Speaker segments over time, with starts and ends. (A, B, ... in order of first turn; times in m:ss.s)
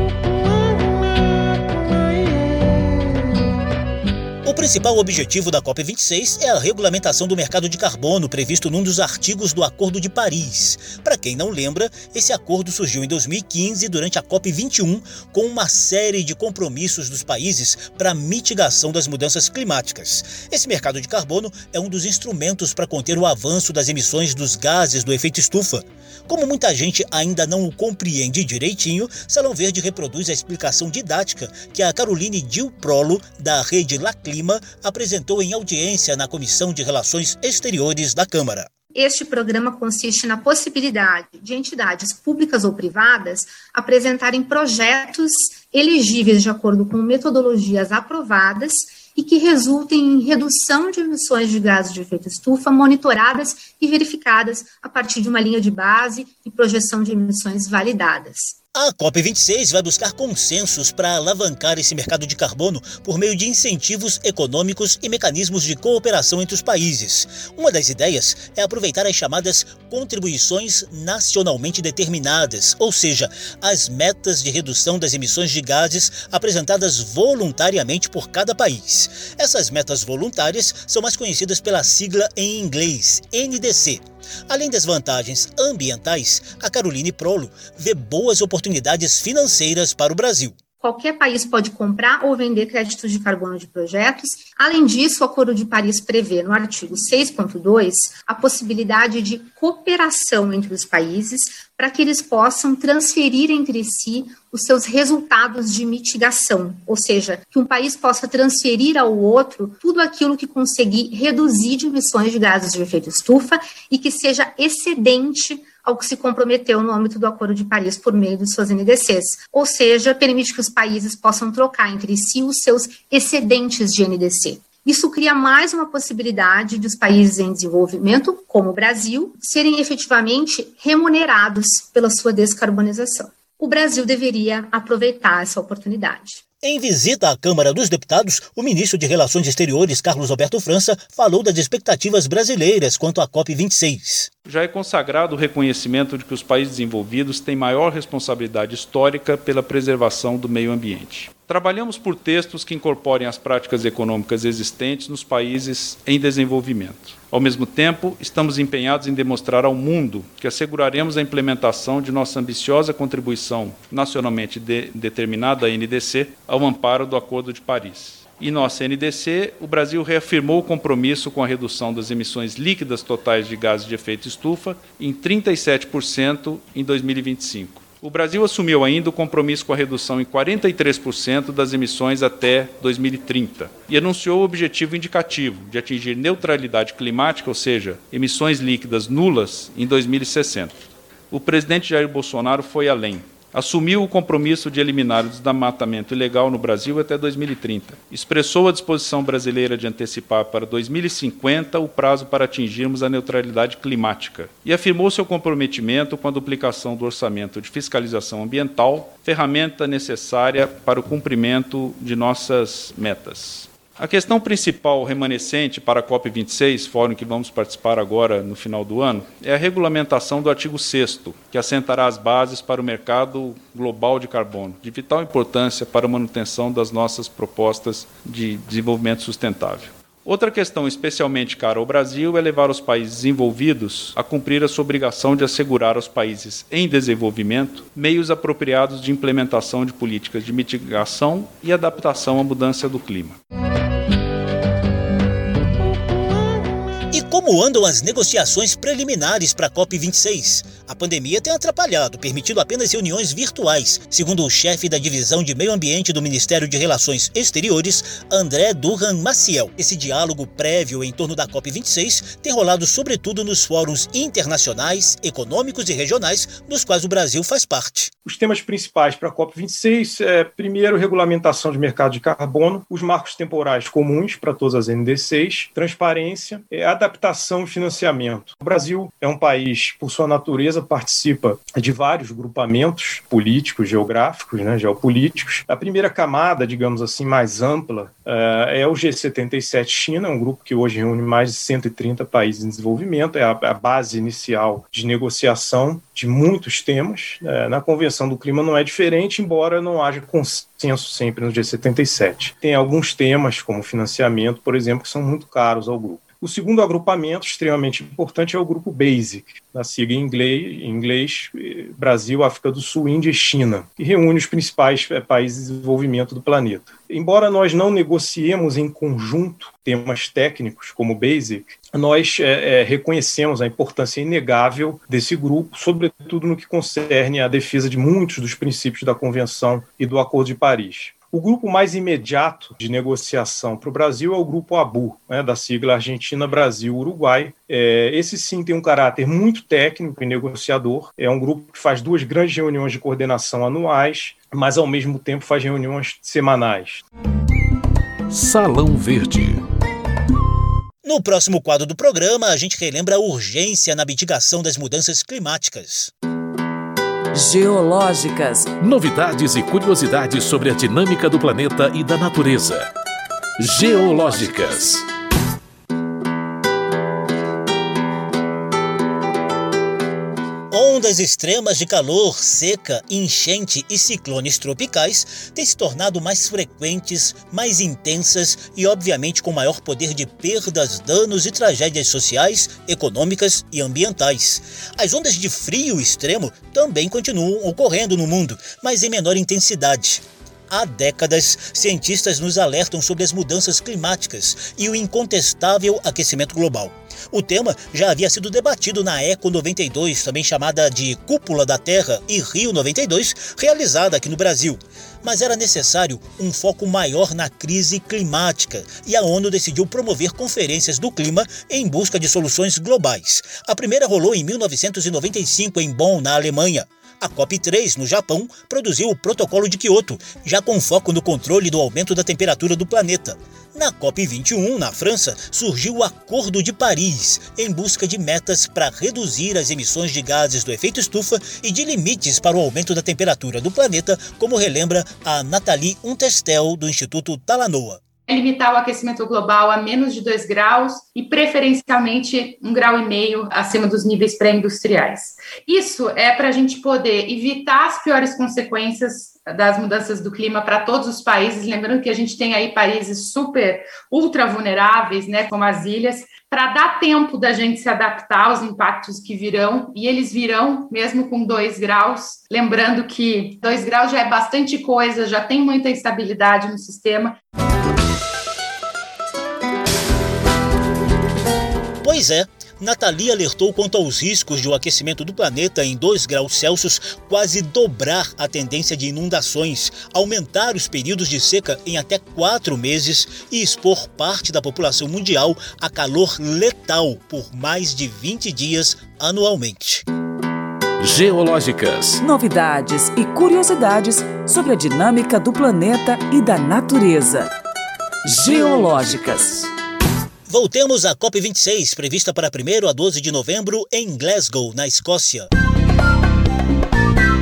0:04.4-0:38.7 A
0:38.9-0:58.6 B
0:58.7-1:30.6 A
1:30.8-2:16.4 B
2:16.6-2:24.3 A
2:24.4-3:10.8 C
3:11.3-4:03.4 C
4:07.1-4:28.1 A
4:28.2-5:47.0 D
5:48.3-5:49.6 E
5:51.0-5:56.1 A
5:57.3-5:58.7 F
5:58.8-6:02.9 E
6:03.6-6:05.0 E
6:10.7-7:18.0 A
7:18.3-7:47.4 G
7:52.0-8:10.0 A
8:11.0-8:12.2 E
8:12.2-8:17.5 F
8:18.2-8:19.6 F
8:18.5-8:19.1 E
8:20.5-8:25.5 A